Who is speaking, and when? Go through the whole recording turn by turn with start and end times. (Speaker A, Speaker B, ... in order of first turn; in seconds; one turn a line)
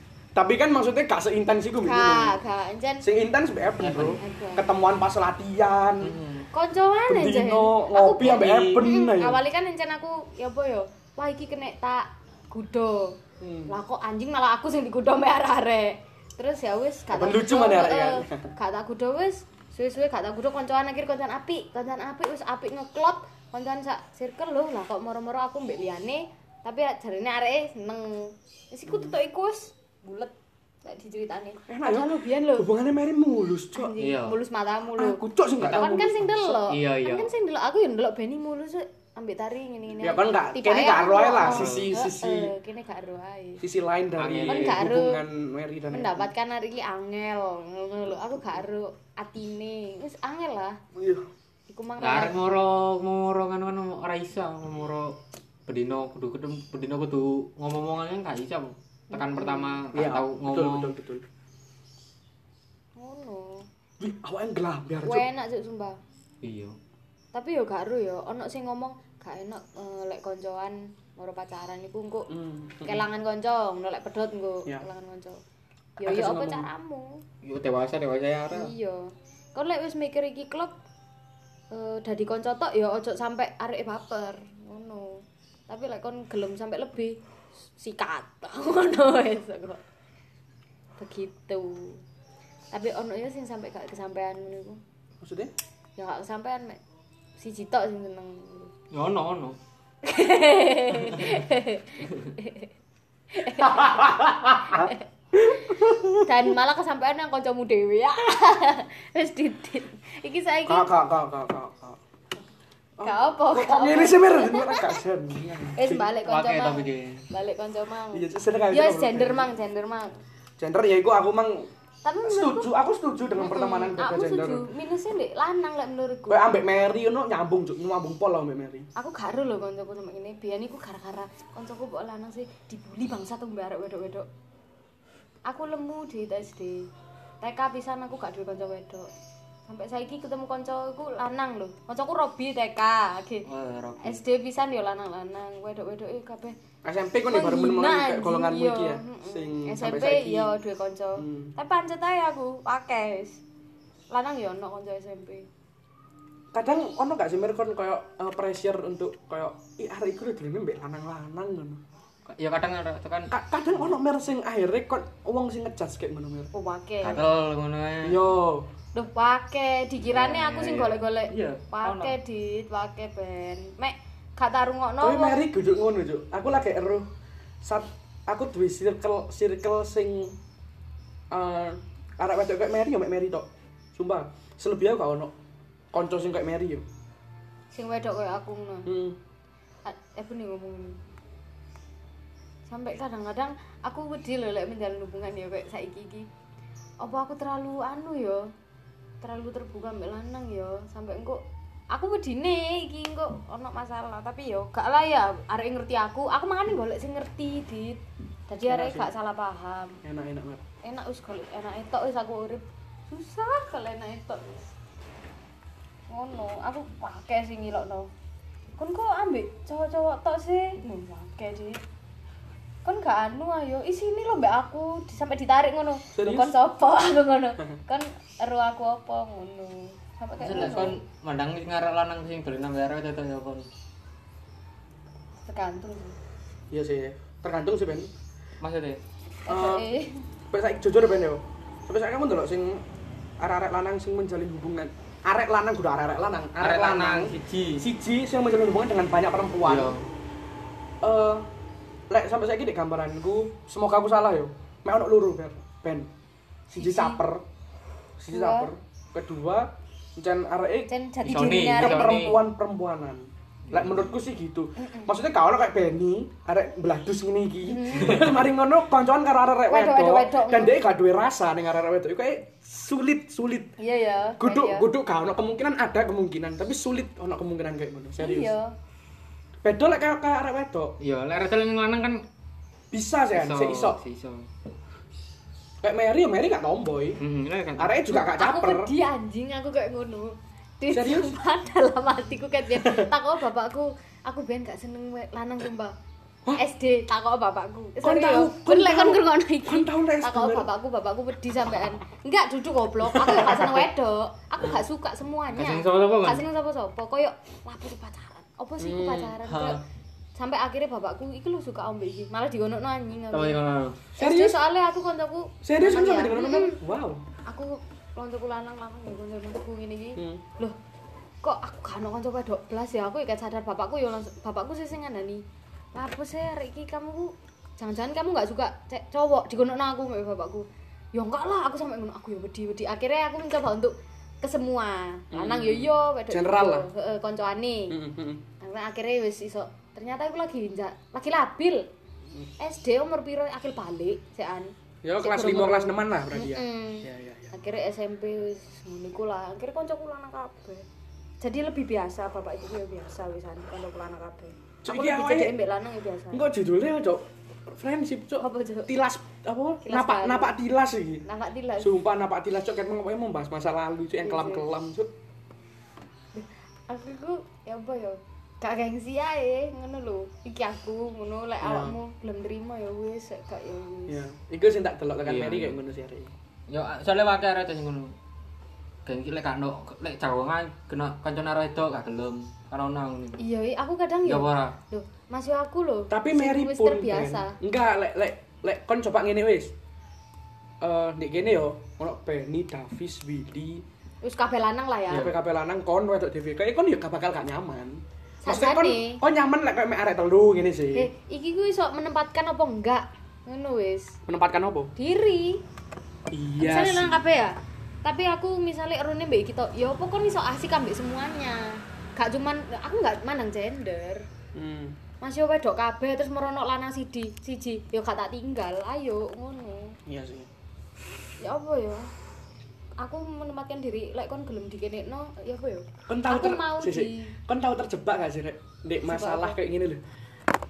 Speaker A: 0.3-2.4
Speaker B: 1.8-3.1
Speaker A: 3.0-6.2
Speaker C: 3.8-4.2
Speaker B: 4.2-4.7
Speaker C: 6.0-6.5
Speaker B: 6.5-13.2
Speaker A: 7.1-9.4
Speaker C: 8.2-8.9
Speaker A: 13.4-13.7
Speaker B: 13.7-32.7
Speaker A: 17.1-18.4
Speaker A: 28.9-29.1
Speaker A: 31.7-33.9
Speaker B: 33.8-43.6
Speaker C: 34.0-34.4
Speaker A: 35.0-36.6
Speaker C: 35.6-36.0
Speaker C: 36.7-37.3
Speaker A: 40.0-42.5
Speaker C: 41.4-41.9
Speaker A: 43.6-46.3
Speaker C: 44.2-44.9
Speaker B: 44.5-45.2
Speaker B: 45.9-50.8
Speaker A: 51.0-51.3
Speaker B: 51.7-52.4
Speaker C: 52.0-55.2
Speaker C: 55.7-60.9
Speaker B: 59.1-59.9
Speaker A: 59.9-61.2
Speaker B: 63.0-63.7
Speaker A: 64.0-65.3
Speaker B: 65.0-66.0
Speaker C: 66.4-66.8
Speaker B: 67.3-72.3
Speaker A: 72.3-73.0
Speaker B: 72.8-75.4
Speaker B: 76.0-77.2
Speaker A: 76.0-76.7
Speaker C: 77.4-78.7
Speaker B: 78.5-80.7
Speaker B: 81.7-87.2
Speaker B: 87.8-89.8
Speaker B: 91.0-92.0
Speaker B: 92.7-94.8
Speaker A: 95.2-95.5
Speaker B: 96.0-96.8
Speaker B: 97.4-98.7
Speaker C: 98.9-99.6
Speaker B: 100.0-102.7
Speaker C: 101.1-101.4
Speaker B: 103.3-110.9
Speaker A: 103.6-106.5
Speaker A: 110.7-112.0
Speaker A: 113.0-116.1
Speaker B: 113.0-115.0
Speaker B: 115.7-120.2
Speaker C: 116.2-117.2
Speaker A: 118.1-119.5
Speaker A: 120.6-121.7
Speaker B: 122.0-122.7
Speaker A: 122.2-124.7
Speaker B: 123.4-126.6
Speaker A: 126.3-128.9
Speaker B: 129.0-134.3
Speaker B: 135.5-136.9
Speaker B: 137.4-139.1
Speaker B: 139.7-143.5
Speaker C: 143.5-144.2
Speaker B: 144.0-146.6
Speaker A: 146.8-150.6
Speaker B: 147.3-153.4
Speaker A: 151.2-151.5
Speaker B: 154.1-155.5
Speaker A: 156.5-161.8
Speaker C: 162.3-163.9
Speaker A: 163.3-166.5
Speaker B: 166.5-167.2
Speaker C: 167.0-168.2
Speaker A: 168.0-168.7
Speaker B: 168.9-175.4
Speaker C: 170.1-172.2
Speaker A: 175.0-177.1
Speaker A: 177.6-180.4
Speaker A: 181.3-185.3
Speaker A: 185.9-186.8
Speaker B: 187.7-188.9
Speaker A: 188.9-189.2
Speaker B: 189.8-191.0
Speaker B: 192.7-196.3
Speaker B: 197.0-198.5
Speaker B: 199.2-201.4
Speaker B: 201.9-210.0
Speaker A: 208.7-209.1
Speaker A: 210.0-210.6
Speaker B: 210.8-214.7
Speaker B: 216.1-218.1
Speaker B: 218.8-221.8
Speaker B: 222.8-231.0
Speaker A: 226.2-226.5
Speaker C: 230.4-233.7
Speaker A: 230.5-230.9
Speaker B: 235.5-236.2
Speaker A: 236.7-238.1
Speaker C: 238.6-239.0
Speaker B: 239.5-240.2
Speaker A: 239.5-239.9
Speaker A: 240.5-242.8
Speaker A: 243.4-249.9
Speaker C: 246.6-247.9
Speaker C: 249.7-250.0
Speaker A: 251.0-251.5
Speaker A: 252.1-256.1
Speaker A: 256.7-257.4
Speaker B: 256.8-257.2
Speaker A: 258.2-260.9
Speaker B: 258.3-258.7
Speaker B: 260.9-262.1
Speaker C: 261.2-262.4
Speaker A: 261.8-273.7
Speaker B: 264.8-265.1
Speaker B: 267.6-268.3
Speaker C: 268.1-268.4
Speaker B: 269.7-270.8
Speaker B: 273.8-274.9
Speaker A: 274.4-278.5
Speaker B: 278.2-278.7
Speaker A: 279.6-280.9
Speaker C: 281.0-282.2
Speaker A: 282.9-284.0
Speaker C: 283.3-284.5
Speaker A: 285.8-287.2
Speaker C: 287.2-288.0
Speaker A: 287.8-288.9
Speaker B: 288.1-295.9
Speaker A: 290.9-291.3
Speaker A: 292.7-293.1
Speaker B: 296.6-309.8
Speaker A: 298.0-300.7
Speaker A: 303.1-303.8
Speaker C: 305.5-306.4
Speaker A: 308.8-309.4
Speaker C: 309.5-309.8
Speaker B: 310.4-313.6
Speaker C: 313.3-314.0
Speaker A: 314.2-314.6
Speaker B: 314.2-316.8
Speaker A: 315.6-317.2
Speaker B: 317.5-320.8
Speaker A: 320.2-320.4
Speaker B: 321.4-325.4
Speaker B: 325.9-337.9
Speaker A: 335.3-336.9
Speaker A: 337.9-338.4
Speaker B: 338.6-341.8
Speaker B: 342.6-350.8
Speaker A: 345.0-347.5
Speaker B: 351.4-356.5
Speaker A: 354.8-355.5
Speaker A: 356.3-361.2
Speaker B: 358.4-358.9
Speaker B: 359.8-360.6
Speaker B: 361.2-361.9
Speaker A: 361.8-365.1
Speaker B: 364.2-364.6
Speaker B: 366.3-374.2
Speaker A: 371.6-372.0
Speaker A: 374.1-376.3
Speaker C: 375.2-375.8
Speaker C: 376.7-378.1
Speaker C: 379.1-383.4
Speaker B: 383.4-387.6
Speaker C: 384.2-384.8
Speaker A: 386.1-389.7
Speaker A: 390.8-393.8
Speaker B: 394.2-395.3
Speaker A: 395.1-401.1
Speaker B: 398.4-399.2
Speaker B: 400.9-404.2
Speaker A: 404.3-404.9
Speaker B: 405.0-405.6
Speaker A: 406.3-407.1
Speaker B: 406.6-414.3
Speaker A: 414.6-415.0
Speaker B: 415.2-420.0
Speaker A: 420.1-420.5
Speaker B: 421.4-422.1
Speaker B: 423.0-427.4
Speaker A: 426.1-430.0
Speaker B: 429.1-429.6